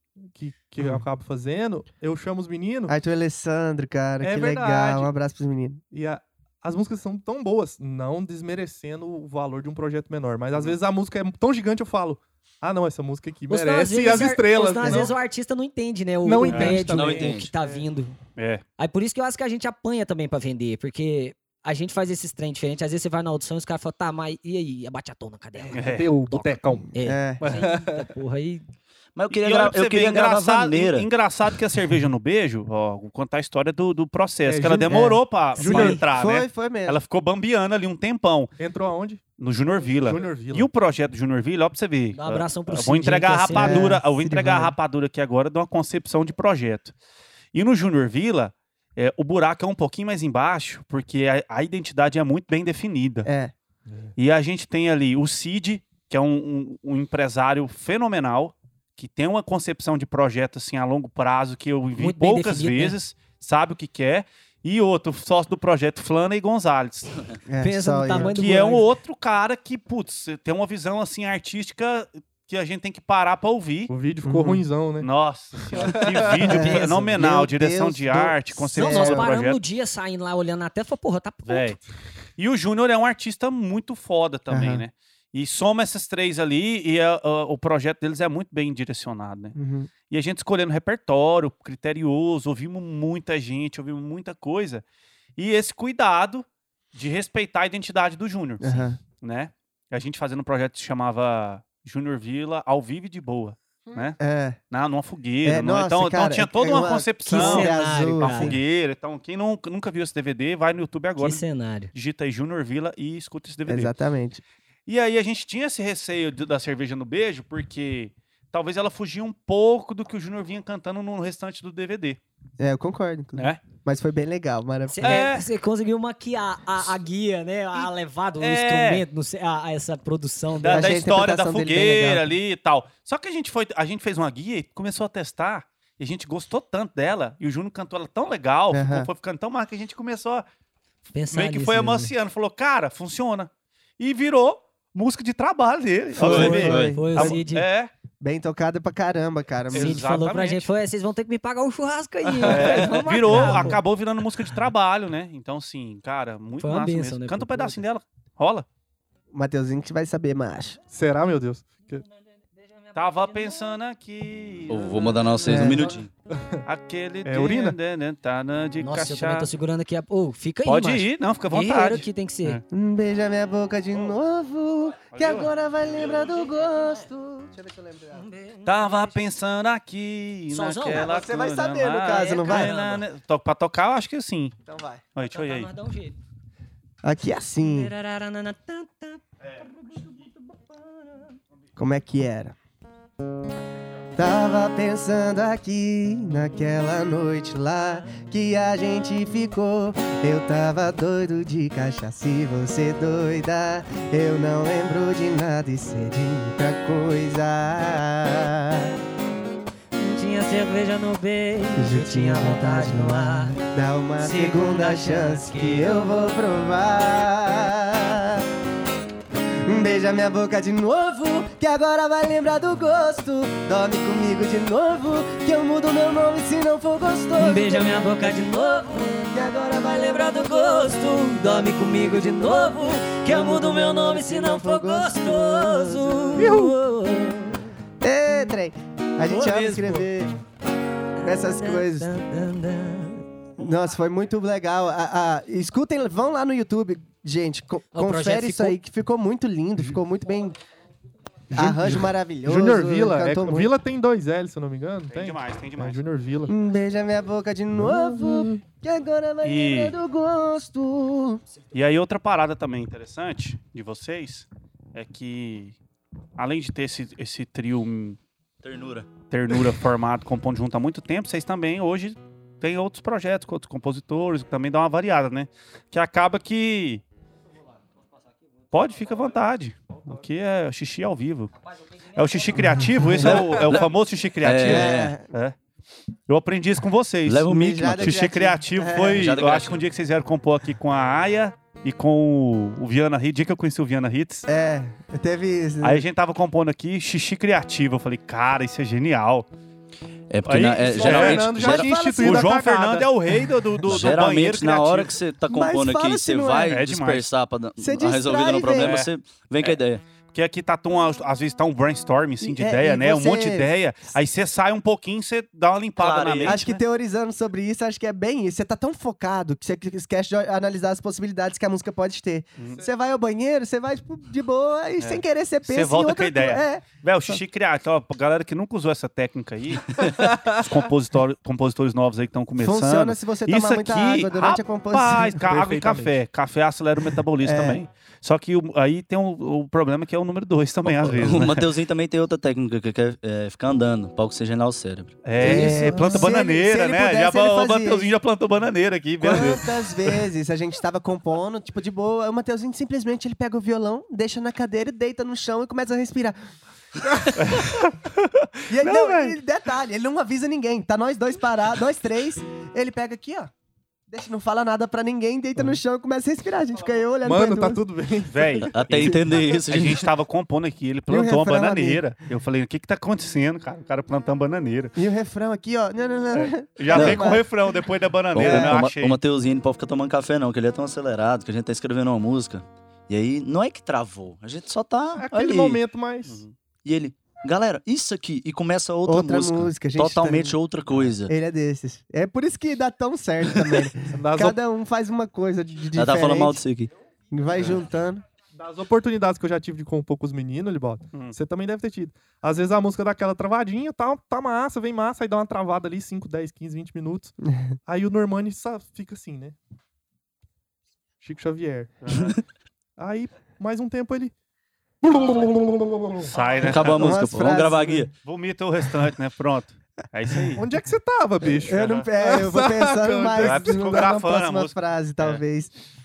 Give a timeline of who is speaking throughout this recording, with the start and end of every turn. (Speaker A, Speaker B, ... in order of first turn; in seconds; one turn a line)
Speaker A: 0.3-2.9
Speaker B: 2.9-5.8
Speaker A: 4.2-5.1
Speaker A: 5.9-15.2
Speaker C: 13.5-18.2
Speaker A: 16.2-17.8
Speaker D: 16.5-16.8
Speaker E: 16.9-17.5
Speaker D: 18.4-18.6
Speaker C: 18.8-28.6
Speaker A: 25.7-28.1
Speaker D: 25.7-26.1
Speaker B: 27.0-27.5
Speaker E: 29.1-31.1
Speaker D: 29.3-38.5
Speaker A: 34.4-36.0
Speaker C: 35.5-36.0
Speaker B: 35.8-37.0
Speaker A: 38.6-39.2
Speaker D: 39.4-46.9
Speaker A: 40.0-40.7
Speaker C: 42.1-44.0
Speaker B: 43.5-44.7
Speaker D: 47.5-53.3
Speaker B: 53.2-53.5
Speaker D: 54.2-67.3
Speaker C: 62.0-63.0
Speaker B: 67.5-68.3
Speaker C: 67.6-68.9
Speaker D: 68.2-73.9
Speaker A: 73.9-75.1
Speaker B: 74.2-74.6
Speaker D: 75.0-79.6
Speaker A: 75.7-76.5
Speaker C: 76.3-77.2
Speaker B: 76.5-79.3
Speaker C: 78.7-81.8
Speaker D: 81.5-81.8
Speaker D: 82.4-89.5
Speaker B: 84.5-84.8
Speaker B: 89.5-89.9
Speaker D: 90.1-94.8
Speaker D: 95.4-104.2
Speaker B: 98.6-99.0
Speaker B: 104.2-104.6
Speaker D: 104.7-113.9
Speaker B: 105.4-108.6
Speaker C: 107.2-108.5
Speaker C: 111.2-111.9
Speaker B: 113.7-114.4
Speaker D: 114.9-122.2
Speaker B: 122.6-125.3
Speaker D: 123.3-123.6
Speaker C: 124.9-131.1
Speaker D: 125.0-125.4
Speaker D: 128.4-129.0
Speaker D: 130.6-140.4
Speaker B: 130.6-132.3
Speaker B: 138.7-139.1
Speaker C: 141.1-142.1
Speaker D: 141.3-147.9
Speaker E: 146.2-147.0
Speaker C: 146.2-147.7
Speaker B: 146.3-147.4
Speaker B: 148.2-150.0
Speaker D: 149.7-150.7
Speaker C: 149.7-153.8
Speaker D: 152.4-158.7
Speaker C: 156.6-157.8
Speaker B: 159.3-160.8
Speaker A: 160.9-162.0
Speaker C: 162.9-163.5
Speaker D: 162.9-165.9
Speaker E: 164.7-166.1
Speaker B: 165.4-166.0
Speaker A: 166.3-166.6
Speaker D: 166.7-169.5
Speaker A: 167.2-167.8
Speaker C: 168.8-172.6
Speaker D: 170.6-172.6
Speaker B: 172.7-178.2
Speaker D: 175.1-175.5
Speaker C: 178.1-179.2
Speaker D: 178.6-184.5
Speaker C: 180.5-181.2
Speaker B: 180.9-182.7
Speaker C: 182.1-183.0
Speaker B: 184.7-185.0
Speaker D: 185.1-185.7
Speaker C: 185.3-186.2
Speaker B: 187.0-187.9
Speaker C: 187.6-189.2
Speaker B: 191.8-192.6
Speaker B: 194.2-208.9
Speaker C: 210.0-213.6
Speaker B: 211.8-218.5
Speaker C: 214.2-216.2
Speaker B: 219.6-228.1
Speaker C: 227.4-229.3
Speaker B: 229.3-230.3
Speaker C: 229.8-237.7
Speaker B: 231.4-236.5
Speaker A: 236.4-236.8
Speaker B: 238.0-240.3
Speaker C: 239.2-240.1
Speaker C: 241.2-243.2
Speaker B: 241.2-242.1
Speaker B: 243.6-250.6
Speaker C: 247.9-248.8
Speaker B: 251.5-253.7
Speaker A: 251.5-256.5
Speaker D: 255.1-256.0
Speaker B: 256.5-261.4
Speaker A: 257.8-258.6
Speaker D: 259.4-259.9
Speaker D: 261.7-265.8
Speaker D: 266.4-268.2
Speaker E: 268.6-269.1
Speaker D: 269.3-277.0
Speaker D: 278.7-281.5
Speaker D: 282.1-285.6
Speaker B: 283.0-283.4
Speaker E: 283.1-283.9
Speaker E: 284.4-285.1
Speaker B: 284.6-285.3
Speaker D: 286.3-294.5
Speaker E: 287.2-288.2
Speaker B: 287.4-289.3
Speaker E: 289.1-289.8
Speaker B: 294.5-296.0
Speaker D: 295.8-299.5
Speaker E: 300.3-301.9
Speaker D: 300.4-305.1
Speaker A: 300.8-303.1
Speaker B: 301.6-302.5
Speaker E: 303.8-310.0
Speaker B: 305.5-306.8
Speaker D: 306.7-307.2
Speaker B: 307.8-309.0
Speaker D: 308.8-309.1
Speaker D: 310.3-316.8
Speaker B: 312.4-313.7
Speaker E: 316.0-316.6
Speaker B: 316.4-327.4
Speaker D: 322.6-322.8
Speaker D: 325.0-341.6
Speaker A: 329.9-330.6
Speaker B: 332.6-335.5
Speaker A: 335.4-336.1
Speaker B: 337.4-337.8
Speaker E: 340.8-346.2
Speaker D: 345.2-350.2
Speaker B: 345.4-348.1
Speaker B: 349.2-356.4
Speaker D: 357.4-359.4
Speaker B: 358.7-363.5
Speaker B: 364.1-367.8
Speaker A: 367.2-369.4
Speaker D: 368.3-374.9
Speaker E: 368.7-370.1
Speaker B: 371.1-372.0
Speaker B: 374.9-377.5
Speaker D: 376.3-379.2
Speaker E: 376.9-377.3
Speaker E: 378.3-385.8
Speaker B: 378.4-378.8
Speaker A: 385.1-386.4
Speaker D: 386.2-386.5
Speaker E: 386.8-391.3
Speaker B: 389.1-390.6
Speaker B: 391.3-396.6
Speaker A: 394.1-394.6
Speaker E: 395.9-396.9
Speaker B: 397.3-398.2
Speaker A: 398.5-407.3
Speaker A: 407.9-409.6
Speaker A: 411.2-412.0
Speaker D: 412.0-412.4
Speaker A: 413.0-414.3
Speaker A: 415.0-416.3
Speaker D: 416.2-417.1
Speaker E: 416.6-418.1
Speaker B: 416.7-418.1
Speaker D: 418.2-420.6
Speaker A: 420.5-424.1
Speaker B: 421.6-425.7
Speaker D: 421.7-422.1
Speaker D: 423.4-425.4